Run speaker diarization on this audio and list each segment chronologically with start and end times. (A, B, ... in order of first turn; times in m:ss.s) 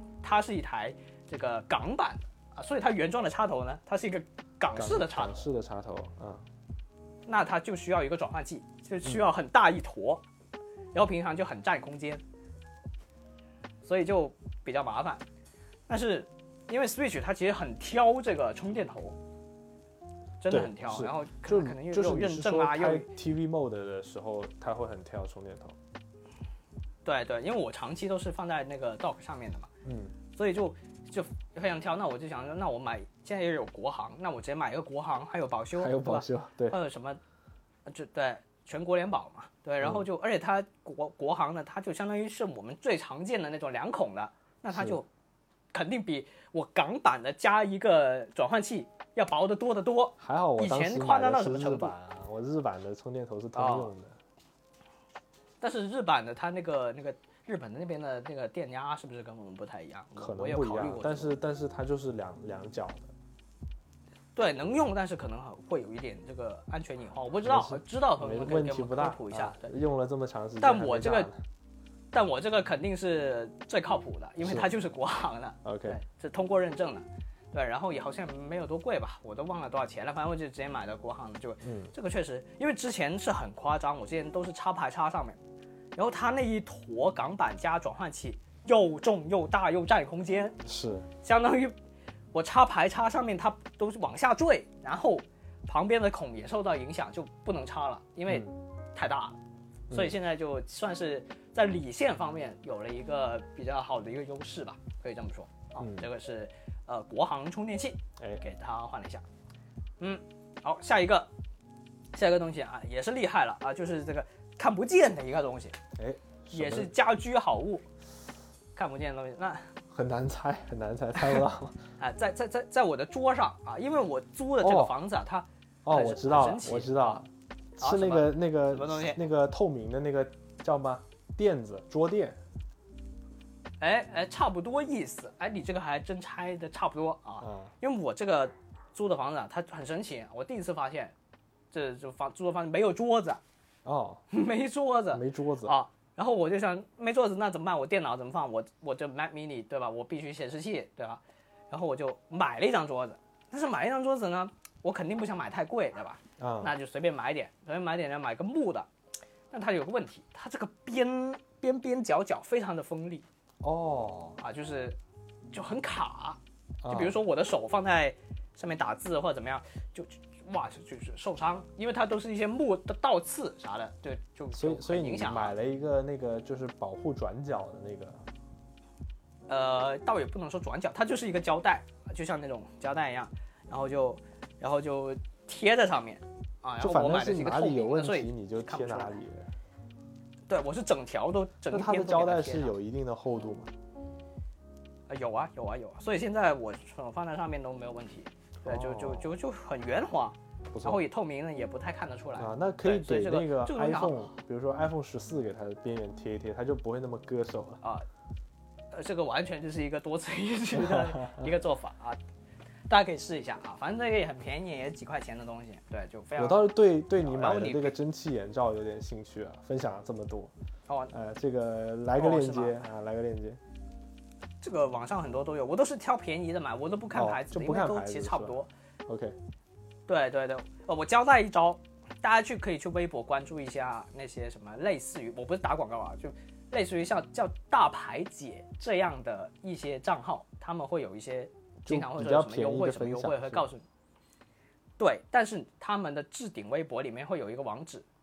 0:00.2-0:05.4 A
0:04.7-0:06.4 B
0:07.3-0:10.2 A
0:10.9-0:12.2 A
0:13.8-0:15.2 A
0:15.9-0:19.2 A
0:20.4-0:23.1 A
0:20.5-0:25.8 B
0:27.0-0:29.7 A
0:29.8-0:30.1 B
0:30.3-0:37.2 A
0:35.8-0:36.8 B
0:37.9-0:45.1 A
0:39.8-0:40.0 B
0:44.7-0:45.0 B
0:45.7-0:51.9 A
0:50.2-0:54.2 B
0:53.6-0:53.9 A
0:55.6-1:01.4 A
1:00.2-1:03.1 B
1:04.4-1:09.7 A
1:07.4-1:11.4 B
1:10.6-1:11.3 A
1:12.1-1:25.4 A
1:14.4-1:14.7 B
1:15.6-1:16.0 B
1:21.6-1:21.9 B
1:26.0-1:30.6 A
1:30.6-1:31.1 B
1:31.2-1:31.7 A
1:32.3-1:39.4 A
1:38.3-1:38.6 B
1:39.9-1:40.2 B
1:39.9-1:49.2 A
1:45.8-1:46.1 B
1:50.0-1:51.3 A
1:52.1-1:55.8 A
1:56.0-1:56.9 B
1:56.5-1:57.8 A
1:58.8-1:59.7 A
1:59.9-2:01.8 B
2:02.0-2:07.2 A
2:04.6-2:04.9 B
2:05.8-2:12.4 B
2:07.8-2:09.2 A
2:13.8-2:21.2 A
2:17.4-2:17.7 B
2:21.7-2:23.4 A
2:23.8-2:24.2 B
2:24.3-2:38.9 A
2:25.1-2:25.8 B
2:36.4-2:36.8 B
2:39.5-2:43.2 A
2:43.6-2:44.4 B
2:44.4-2:45.0 A
2:45.5-2:55.5 A
2:46.8-2:47.2 B
2:54.5-2:58.2 B
2:59.5-3:09.2 A
3:06.8-3:09.5 B
3:10.5-3:12.7 A
3:11.7-3:13.7 B
3:15.1-3:24.3 A
3:18.6-3:19.4 B
3:20.7-3:21.0 B
3:22.4-3:27.8 B
3:28.9-3:32.2 A
3:30.7-3:31.5 B
3:32.9-3:38.0 A
3:36.4-3:40.5 B
3:40.9-3:41.1 A
3:41.1-3:43.6 B
3:42.2-3:42.8 A
3:44.6-3:48.7 A
3:47.1-3:49.4 B
3:50.1-4:03.8 A
4:01.9-4:03.7 B
4:05.0-4:08.0 A